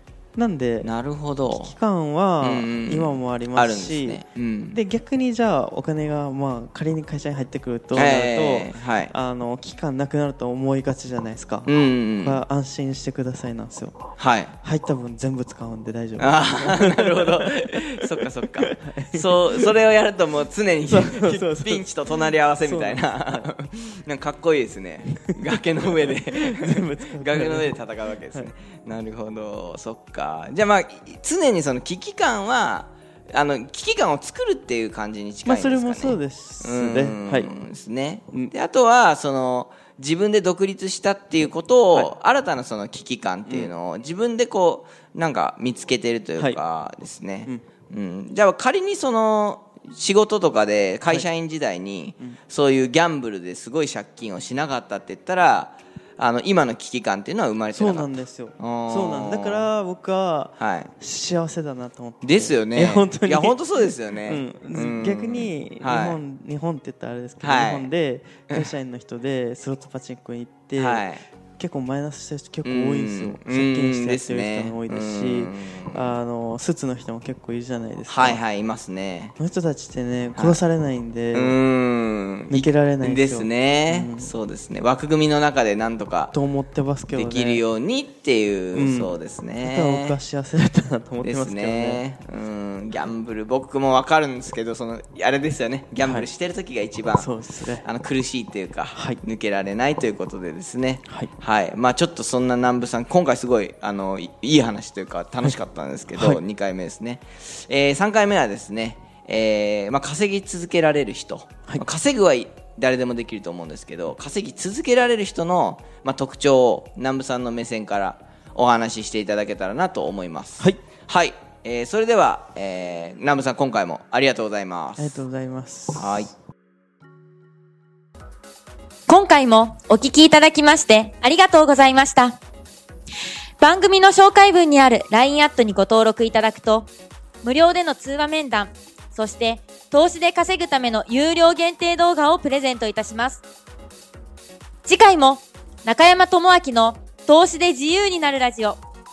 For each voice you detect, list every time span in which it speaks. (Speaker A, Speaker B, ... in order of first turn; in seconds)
Speaker A: 0.3-0.9, 1.5-14.0, 14.6-19.7, 20.9-21.9, 22.6-23.5, 25.9-27.8, 35.4-37.5, 43.5-43.7, 57.7-63.6, 64.2-78.4, 79.4-81.6, 82.5-84.3, 86.3-87.6, 88.7-92.0, 96.0-96.3, 97.1-97.9, 98.9-99.2, 106.1-106.4, 125.0-126.3
Speaker B: 0.8-1.7, 2.4-4.8, 7.9-9.1, 11.7-12.4, 14.2-14.5, 16.2-58.1, 58.6-59.7, 60.6-60.9, 62.2-66.2, 67.4-67.9, 70.7-71.2, 72.6-76.2, 78.1-79.3, 81.3-86.3, 87.1-90.2, 91.2-97.3, 97.8-125.2, 125.9-126.3
Speaker C: 129.1-132.4, 133.6-136.9, 137.4-143.4, 144.8-148.8